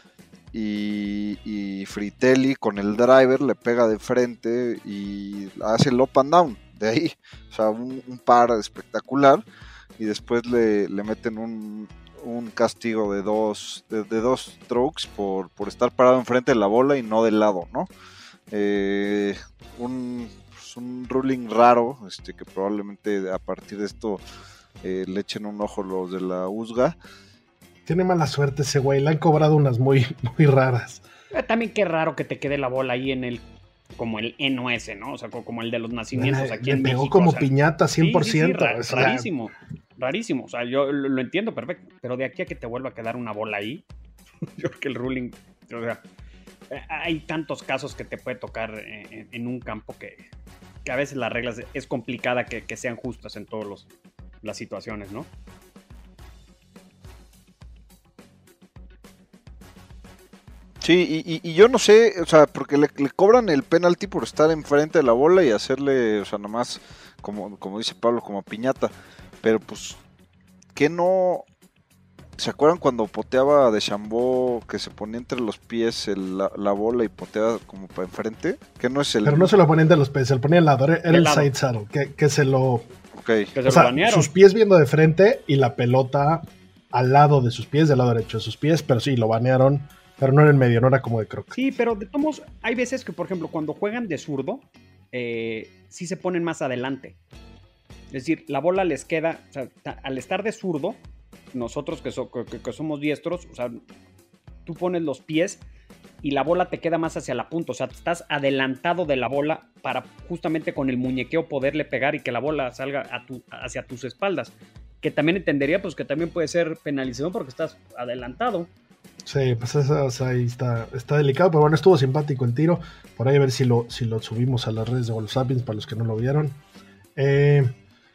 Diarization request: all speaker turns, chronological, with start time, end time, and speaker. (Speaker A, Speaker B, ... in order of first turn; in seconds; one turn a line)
Speaker A: 0.5-9.4
Speaker A: 10.0-17.9
Speaker A: 18.5-24.2
Speaker A: 24.8-27.0
Speaker B: 27.9-31.0
Speaker C: 31.3-33.5
Speaker C: 34.0-43.8
Speaker B: 36.1-39.3
Speaker C: 44.6-46.0
Speaker C: 46.7-50.3
Speaker C: 50.9-53.9
Speaker C: 54.4-55.3
Speaker A: 60.8-68.9
Speaker A: 69.4-70.0
Speaker A: 70.8-71.5
Speaker A: 72.4-79.5
Speaker B: 79.2-82.9
Speaker C: 81.1-81.5
Speaker A: 83.2-83.5
Speaker C: 83.5-84.3
Speaker B: 83.7-91.5
Speaker C: 91.5-97.2
Speaker C: 98.1-101.0
Speaker C: 101.5-103.8
Speaker C: 104.7-105.6
Speaker C: 106.2-118.7
Speaker B: 119.2-126.6
Speaker B: 127.2-127.7